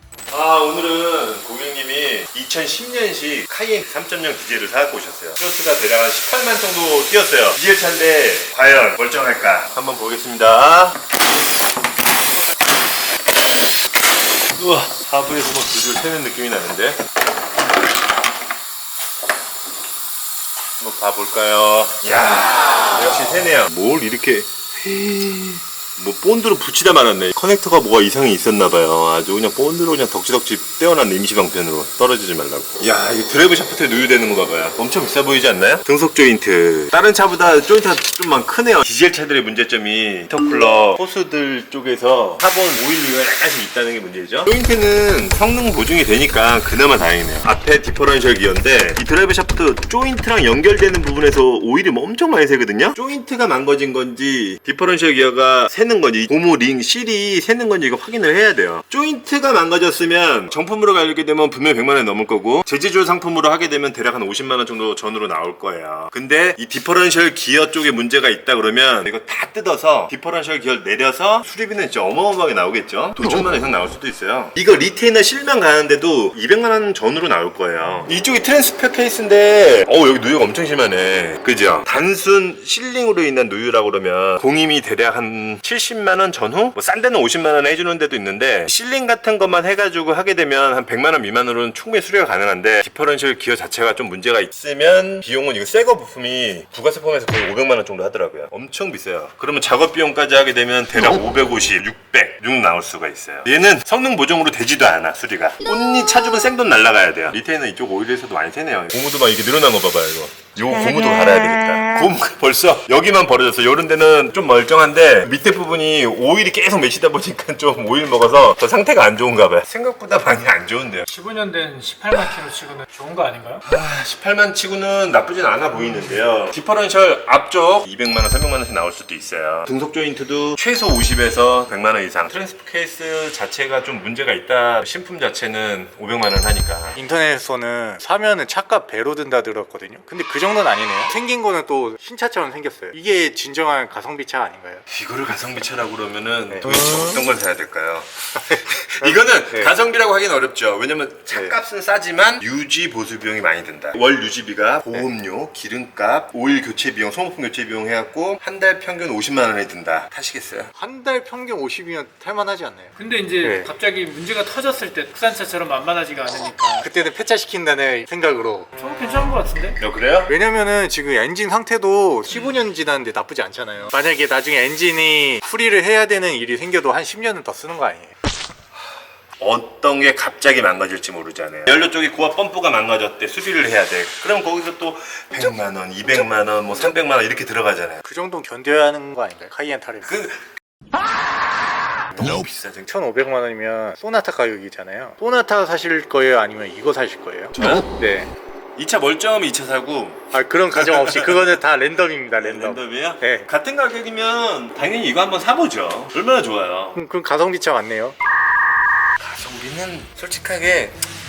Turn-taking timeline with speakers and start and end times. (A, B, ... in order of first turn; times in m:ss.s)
0:00.3-0:11.1 A
0:14.6-0:17.0 A
0:20.8-2:01.0 A
2:01.0-2:03.6 B
2:03.6-2:17.0 A
2:17.0-2:24.8 C
2:24.9-2:40.7 A
2:40.8-2:43.7 C
2:43.0-2:46.9 B
2:46.8-2:48.7 C
2:48.8-2:49.8 B
2:49.8-2:50.3 A
2:50.3-2:58.2 C
2:59.4-3:08.0 A
3:08.0-3:10.2 C
3:10.0-3:10.4 A
3:12.1-3:18.3 C
3:12.2-3:12.9 A
3:17.6-3:17.9 A
3:18.8-3:21.5 A
3:20.3-3:23.5 C
3:22.4-3:27.0 A
3:27.0-3:28.2 C
3:29.2-3:31.0 A